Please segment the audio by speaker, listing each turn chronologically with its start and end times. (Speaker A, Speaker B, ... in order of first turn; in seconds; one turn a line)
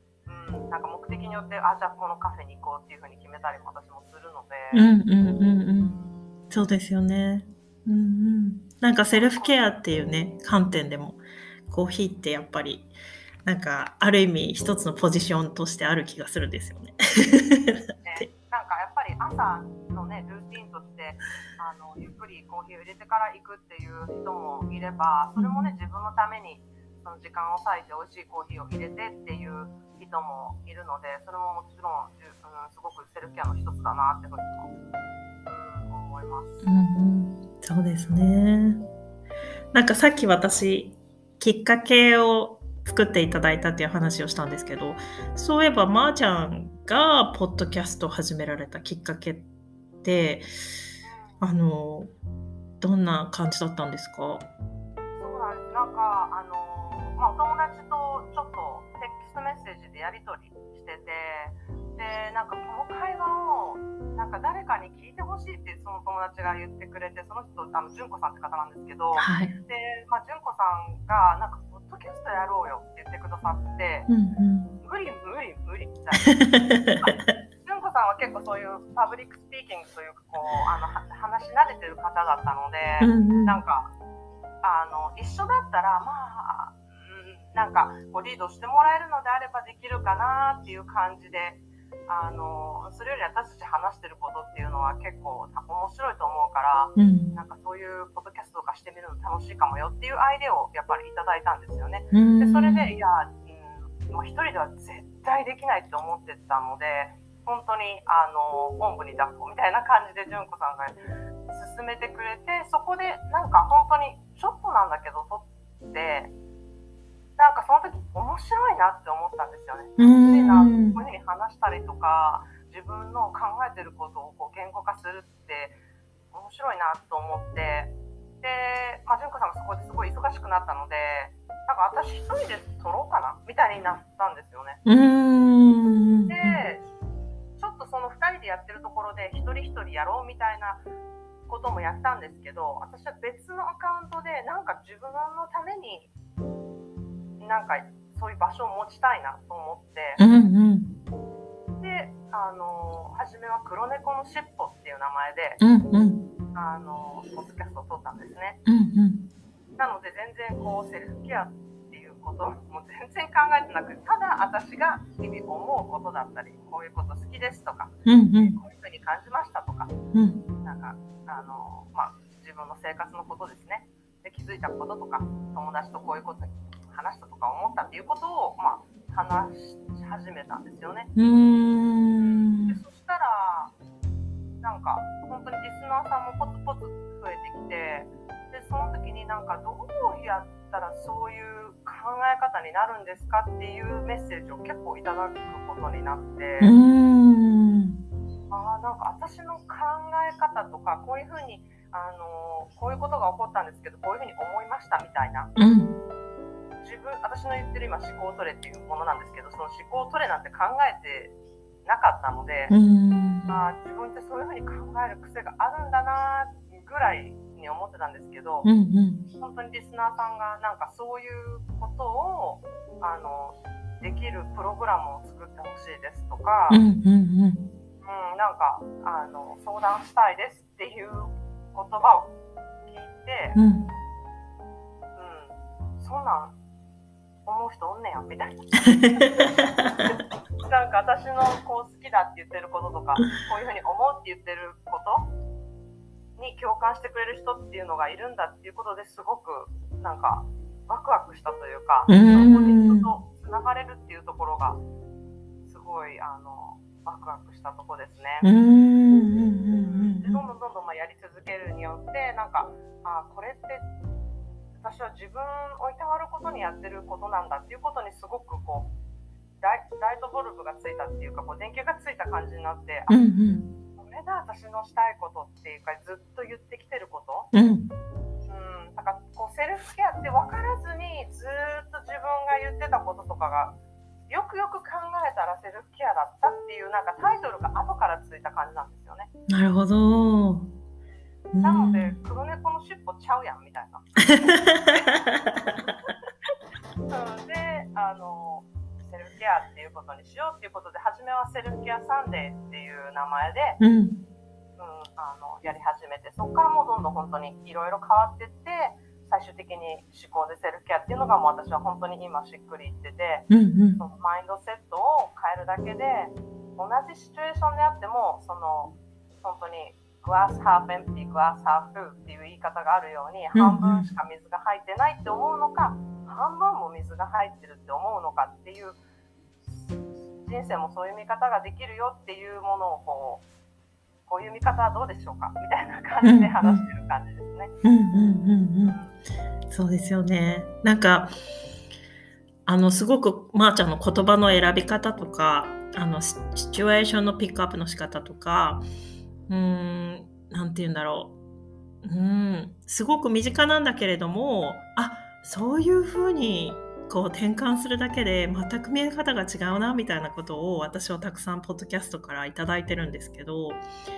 Speaker A: 0.2-4.8
Speaker B: 4.7-6.0
Speaker B: 6.5-12.9
Speaker A: 9.1-9.6
Speaker B: 13.4-18.3
Speaker A: 18.0-34.7
Speaker B: 25.4-25.7
Speaker A: 35.5-36.6
Speaker B: 36.6-38.8
Speaker B: 39.7-49.5
Speaker B: 50.0-50.8
Speaker A: 51.0-51.4
Speaker B: 51.4-52.1
Speaker B: 52.8-54.5
Speaker A: 55.1-74.1
Speaker B: 69.2-69.5
Speaker B: 74.1-74.7
Speaker A: 74.8-83.9
Speaker B: 76.3-77.0
Speaker B: 83.0-83.6
Speaker A: 84.6-116.3
Speaker B: 97.0-97.3
Speaker B: 102.1-102.9
Speaker A: 117.4-125.8
Speaker B: 120.0-121.0
Speaker A: 126.3-134.8
Speaker B: 134.8-136.6
Speaker A: 136.3-136.8
Speaker A: 137.6-140.8
Speaker A: 141.5-146.1
Speaker A: 147.4-150.2
Speaker B: 150.2-150.9
Speaker A: 151.8-155.6
Speaker B: 155.6-156.2
Speaker A: 156.5-158.6
Speaker B: 158.7-159.2
Speaker A: 159.8-169.9
Speaker B: 168.1-168.5
Speaker B: 170.1-170.4
Speaker A: 170.6-181.1
Speaker B: 181.1-182.8
Speaker A: 182.2-183.7
Speaker A: 184.6-196.7
Speaker B: 196.6-198.0
Speaker A: 198.5-205.5
Speaker B: 205.6-205.9
Speaker A: 206.8-211.3
Speaker A: 211.8-212.7
Speaker B: 212.7-213.6
Speaker A: 213.5-218.7
Speaker B: 218.6-219.2
Speaker A: 219.4-226.8
Speaker B: 226.7-227.6
Speaker A: 228.0-232.3
Speaker A: 232.8-233.6
Speaker B: 233.5-233.9
Speaker A: 235.2-236.5
Speaker A: 237.4-239.6
Speaker A: 240.6-245.3
Speaker A: 246.4-254.8
Speaker B: 252.1-253.1
Speaker A: 255.7-258.5
Speaker B: 258.4-260.4
Speaker A: 259.7-263.9
Speaker A: 264.8-268.9
Speaker A: 269.6-273.2
Speaker B: 273.1-273.6
Speaker A: 274.0-277.5
Speaker B: 277.5-277.9
Speaker A: 278.5-283.7
Speaker A: 284.3-289.3
Speaker B: 289.5-290.7
Speaker B: 291.5-292.1
Speaker A: 291.6-296.1
Speaker A: 297.1-303.8
Speaker B: 303.8-304.2
Speaker A: 304.8-313.5
Speaker B: 313.5-314.0
Speaker A: 314.0-329.0
Speaker B: 323.5-324.1
Speaker A: 329.6-333.4
Speaker A: 334.3-337.7
Speaker B: 336.2-336.8
Speaker B: 337.8-339.0
Speaker A: 338.8-339.1
Speaker B: 339.7-341.3
Speaker B: 342.6-348.8
Speaker B: 349.5-351.3
Speaker B: 352.0-363.8